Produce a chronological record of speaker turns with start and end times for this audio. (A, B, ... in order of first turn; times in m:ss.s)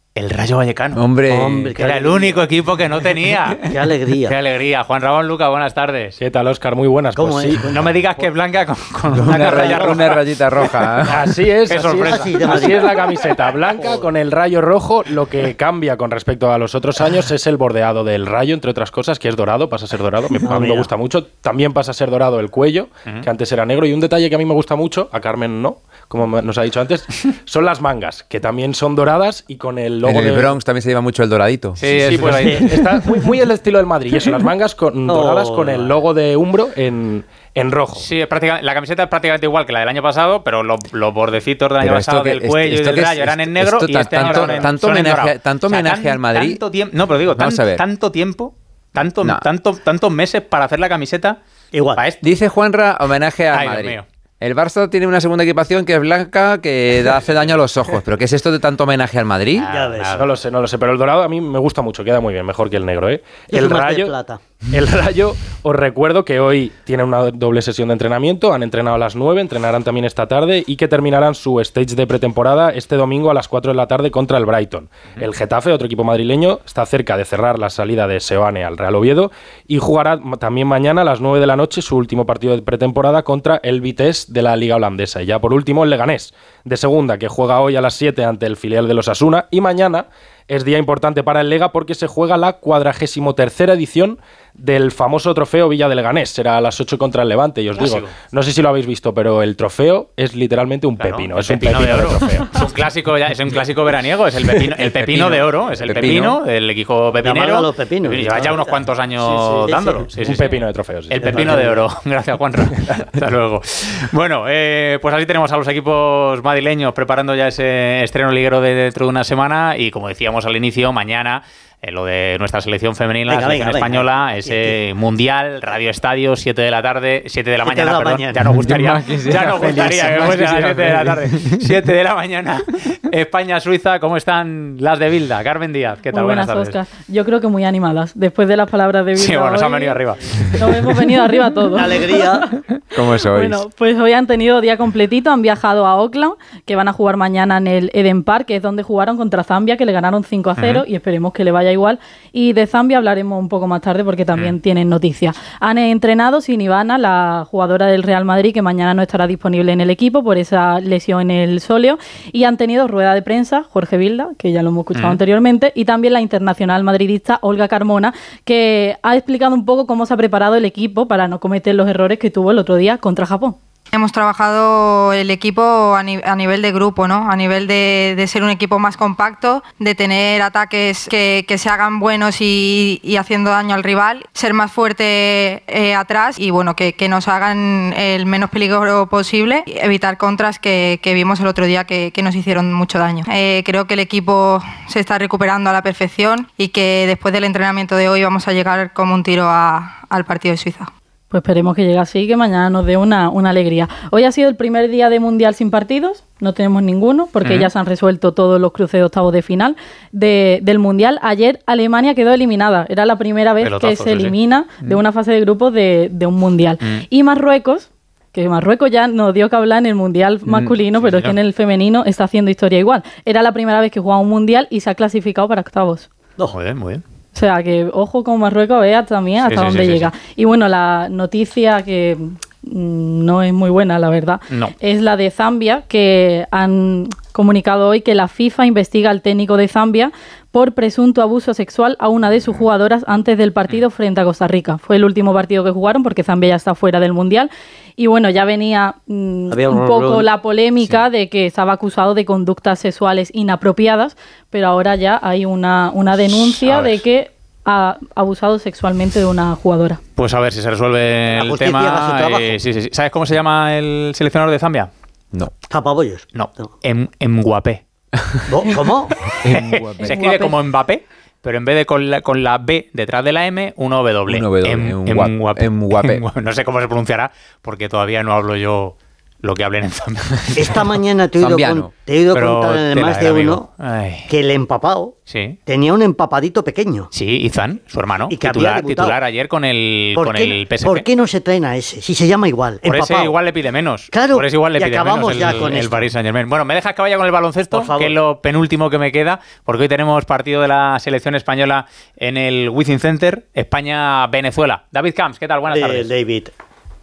0:00.2-0:01.0 A
0:01.0-0:01.8 B
0:01.3-0:02.5 C
0:01.8-0:03.6 A
0:03.7-0:04.3 C
0:04.2-0:06.2 A
0:06.2-0:08.2 D
0:07.2-0:07.9 C
0:07.7-0:10.2 A
0:09.1-0:11.2 B
0:09.4-0:10.0 D
0:11.1-0:30.6 D
0:11.7-0:12.7 A
0:12.0-0:14.1 C
0:20.4-0:20.9 C
0:30.0-0:31.8 B
0:31.8-0:32.7 A
0:31.8-0:38.1 D
0:32.4-0:32.7 B
0:35.1-0:36.0 C
0:38.0-0:51.4 A
0:41.8-0:46.6 B
0:44.3-0:44.7 C
0:47.4-0:47.8 B
0:51.7-0:52.0 C
0:52.0-0:52.2 A
0:52.2-0:59.7 B
0:53.5-0:54.0 A
0:59.6-1:00.3 A
0:59.7-1:00.2 C
1:00.2-1:04.2 D
1:03.5-1:04.4 C
1:04.7-1:42.6 D
1:37.7-1:38.1 A
1:41.0-2:16.8 A
1:44.8-1:46.4 B
1:47.2-1:48.8 C
1:49.4-1:50.1 C
1:50.2-1:51.7 D
1:51.2-1:51.8 C
2:03.3-2:04.8 C
2:07.6-2:08.4 C
2:08.5-2:11.6 B
2:16.1-2:20.0 E
2:19.2-2:20.3 A
2:20.6-2:22.6 E
2:21.2-2:21.4 A
2:21.8-2:22.5 C
2:22.9-2:23.6 B
2:23.3-2:53.6 E
2:30.6-2:30.8 A
2:45.0-2:45.2 A
2:53.9-3:20.9 F
3:21.3-3:46.1 E
3:27.4-3:27.7 A
3:33.6-3:34.4 A
3:40.5-3:40.7 B
3:41.0-3:41.4 A
3:46.5-3:47.0 A
3:47.3-4:20.0 E
3:49.4-3:50.1 A
4:16.5-4:17.0 A
4:20.2-4:24.9 A
4:21.3-4:22.6 C
4:25.7-4:26.2 C
4:26.3-4:27.8 A
4:28.5-4:29.2 C
4:29.4-4:30.2 B
4:29.5-4:40.9 A
4:30.0-4:30.3 E
4:34.3-4:36.2 B
4:40.6-4:43.7 C
4:41.4-4:41.9 B
4:42.3-4:44.3 A
4:44.3-4:45.2 C
4:45.3-4:45.6 A
4:45.7-4:47.1 C
4:47.1-4:51.1 A
4:48.3-4:49.2 C
4:50.2-4:53.4 C
4:52.8-5:06.1 A
4:54.1-4:56.1 C
4:57.7-4:58.2 C
5:05.7-5:06.5 C